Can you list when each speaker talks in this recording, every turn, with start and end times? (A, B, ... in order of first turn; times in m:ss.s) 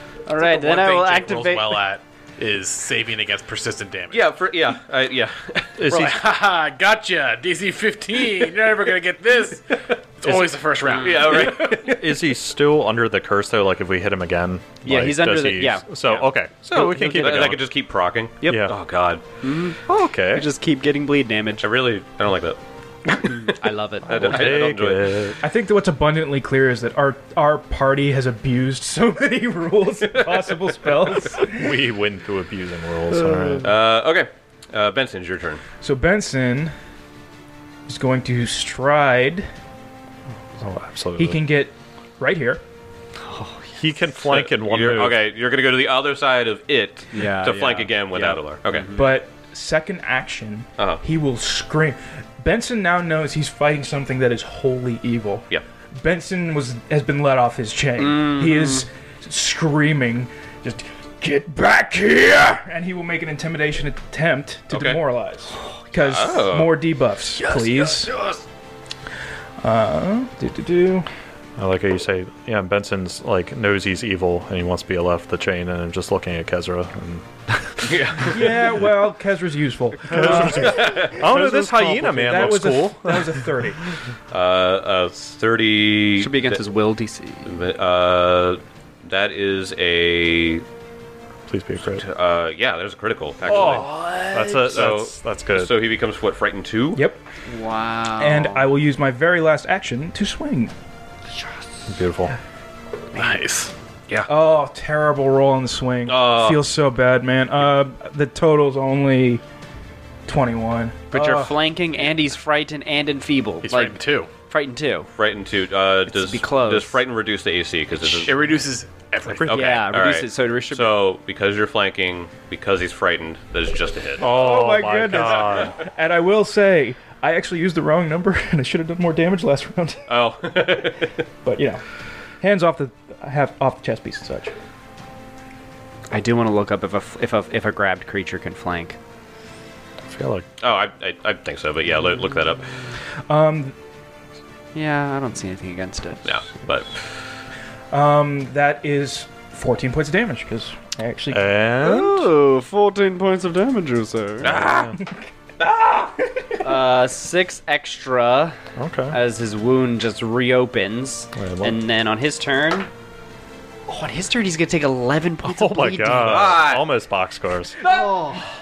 0:00.2-0:01.8 A
0:00.4-0:04.2 B
0:04.1-0:05.8 C
0:05.8-0:06.2 D
0:05.9-0:11.8 B
0:10.8-0:12.3 C
0:10.9-0:11.2 A
0:11.8-0:17.7 D
0:14.8-0:15.9 A
0:16.1-0:19.2 C
0:17.1-0:17.4 A
0:18.4-0:18.7 A
0:18.4-0:18.8 D
0:19.4-0:21.7 A
0:19.8-0:20.5 D
0:21.6-0:25.3 C
0:23.3-0:24.5 A
0:24.0-0:25.4 D
0:25.4-0:31.8 E
0:30.1-0:30.7 C
0:31.5-0:33.7 D
0:33.3-0:33.6 A
0:33.6-0:35.6 C
0:35.8-0:36.7 E
0:37.9-0:39.5 E
0:40.6-0:41.4 D
0:41.2-0:42.6 E
0:43.2-0:43.8 A
0:43.8-0:45.2 D
0:44.2-0:49.0 C
0:47.1-0:49.0 A
0:48.9-0:55.4 E
0:56.0-1:08.1 E
0:58.0-0:58.8 A
1:04.7-1:05.0 C
1:06.0-1:06.8 C
1:07.4-1:08.4 A
1:09.6-1:11.1 E
1:11.6-1:18.3 D
1:17.8-1:18.5 C
1:18.3-1:23.8 E
1:20.1-1:23.7 D
1:20.1-1:20.7 A
1:20.5-1:21.2 C
1:24.3-1:26.6 C
1:26.2-1:27.5 A
1:27.4-1:30.6 C
1:31.5-1:32.0 D
1:31.9-1:33.9 C
1:33.4-1:34.7 A
1:33.5-1:35.8 D
1:34.7-1:37.0 C
1:36.9-1:37.2 E
1:37.5-1:38.6 A
1:38.2-1:40.7 E
1:41.9-1:42.3 D
1:43.1-1:43.7 B
1:44.3-1:49.4 E
1:46.1-1:46.6 C
1:50.3-1:51.5 E
1:51.1-1:55.1 A
1:53.6-1:54.3 B
1:55.2-1:58.4 C
1:56.1-1:57.0 A
1:58.1-1:59.6 B
1:59.3-1:59.7 D
1:59.4-2:04.3 C
1:59.5-2:00.9 A
2:04.2-2:05.8 D
2:04.2-2:10.1 E
2:10.1-2:11.2 C
2:11.4-2:11.8 E
2:12.4-2:14.5 E
2:16.1-2:19.0 A
2:20.0-2:20.5 D
2:20.6-2:22.7 C
2:23.3-2:23.7 E
2:24.7-2:26.3 A
2:26.2-2:27.2 C
2:27.9-2:31.6 E
2:31.3-2:32.3 D
2:31.8-2:34.6 A
2:34.4-2:34.9 C
2:34.4-2:35.0 D
2:35.6-2:36.1 C
2:36.6-2:38.6 A
2:38.8-2:39.2 D
2:39.1-2:42.9 A
2:41.4-2:41.8 D
2:43.9-2:46.6 A
2:45.4-2:47.8 D
2:46.2-2:46.9 C
2:47.8-2:48.4 A